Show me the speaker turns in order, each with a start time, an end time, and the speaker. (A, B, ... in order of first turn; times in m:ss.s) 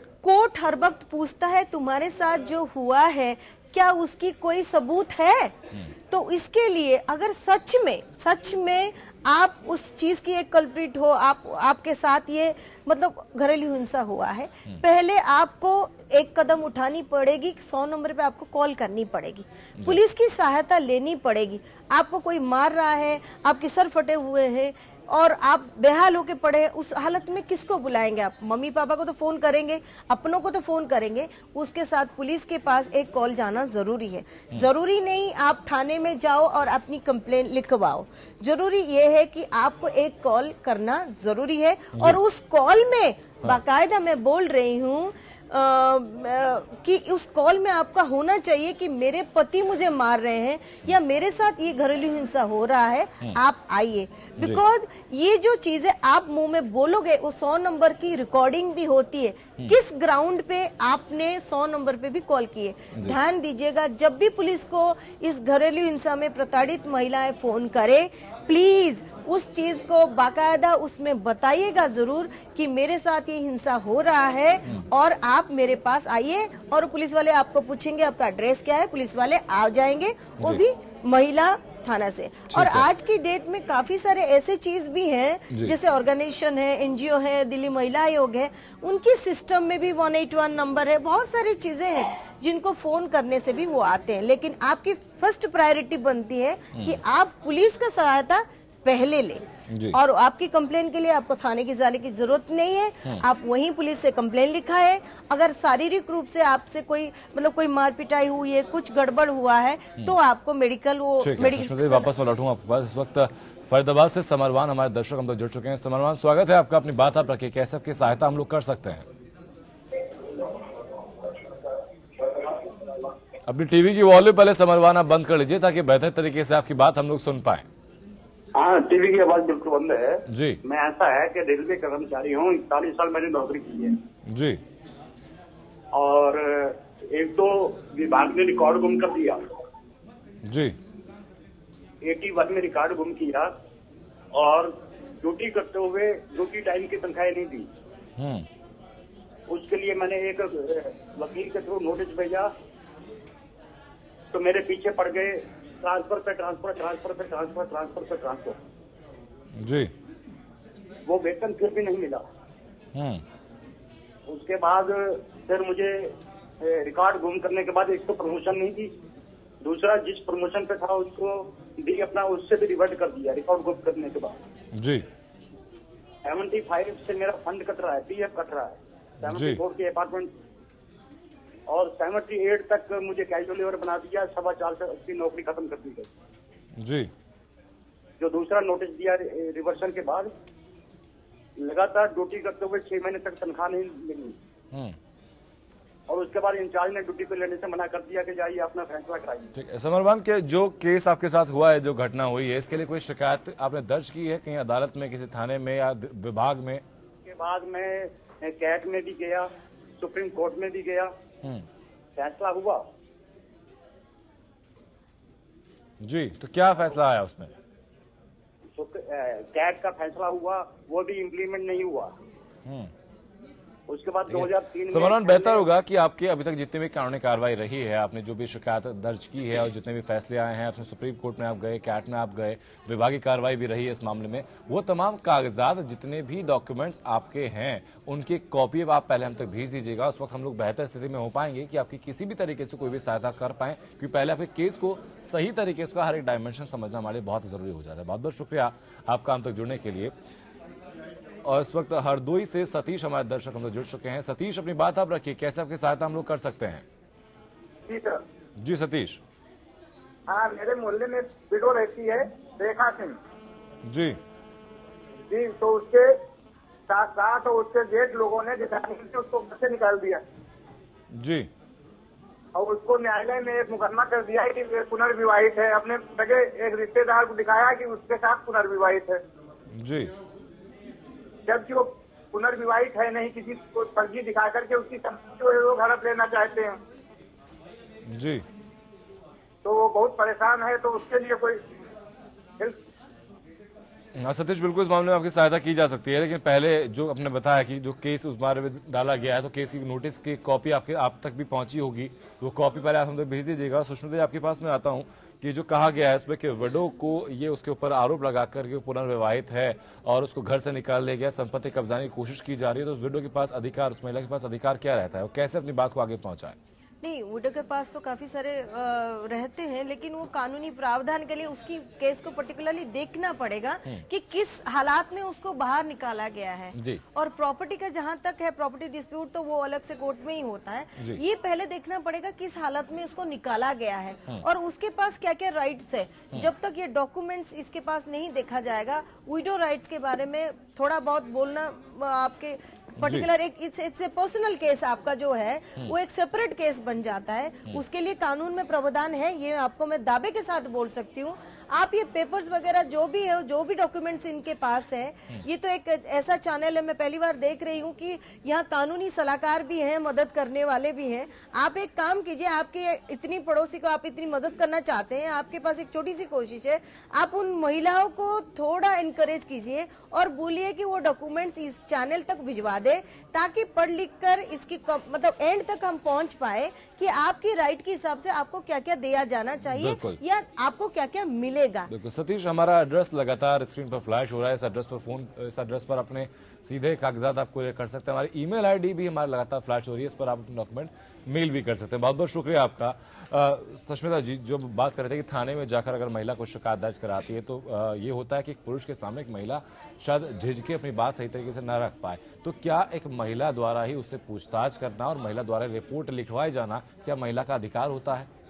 0:00.2-0:05.5 A
0:06.1-1:52.1 A
1:22.5-1:22.9 B
1:25.5-1:25.7 B
1:39.7-1:40.0 B
1:51.2-1:59.1 B
2:03.4-2:07.6 B
2:08.5-2:14.0 C
2:10.3-2:10.6 B
2:14.2-2:14.6 B
2:15.9-2:19.4 C
2:20.4-2:20.8 B
2:22.0-2:23.5 C
2:24.3-2:27.7 C
2:28.2-2:28.5 B
2:29.5-2:32.5 C
2:34.3-2:38.6 C
2:39.5-2:39.9 B
2:41.0-2:42.2 C
2:42.9-2:43.2 B
2:44.3-2:48.9 C
2:49.6-2:54.4 C
2:54.7-2:55.0 B
2:56.2-3:00.3 C
2:59.2-2:59.6 B
3:01.7-3:06.1 C
3:06.8-3:07.1 B
3:08.2-3:10.3 C
3:11.6-3:14.4 C
3:14.7-3:15.0 B
3:16.1-3:19.5 C
3:19.5-3:26.8 B
3:27.2-3:31.1 C
3:32.2-3:32.8 C
3:36.0-3:37.5 B
3:38.7-3:42.1 C
3:42.6-3:42.9 B
3:43.9-3:45.6 C
3:44.3-4:10.1 B
4:11.4-4:16.8 B
4:17.8-4:18.2 D
4:18.6-4:19.2 B
4:20.3-4:23.2 D
4:23.8-4:24.2 B
4:25.3-4:26.2 D
4:26.9-4:30.2 D
4:31.1-4:31.5 B
4:32.5-4:39.2 D
4:39.7-4:40.1 B
4:41.5-4:46.8 D
4:48.0-4:48.4 B
4:49.6-4:51.6 D
4:54.1-5:16.6 B
5:17.0-6:21.9 A
5:26.7-5:27.0 B
5:31.0-5:31.2 B
5:43.0-5:43.3 B
6:19.7-6:20.2 B
6:21.9-6:48.3 B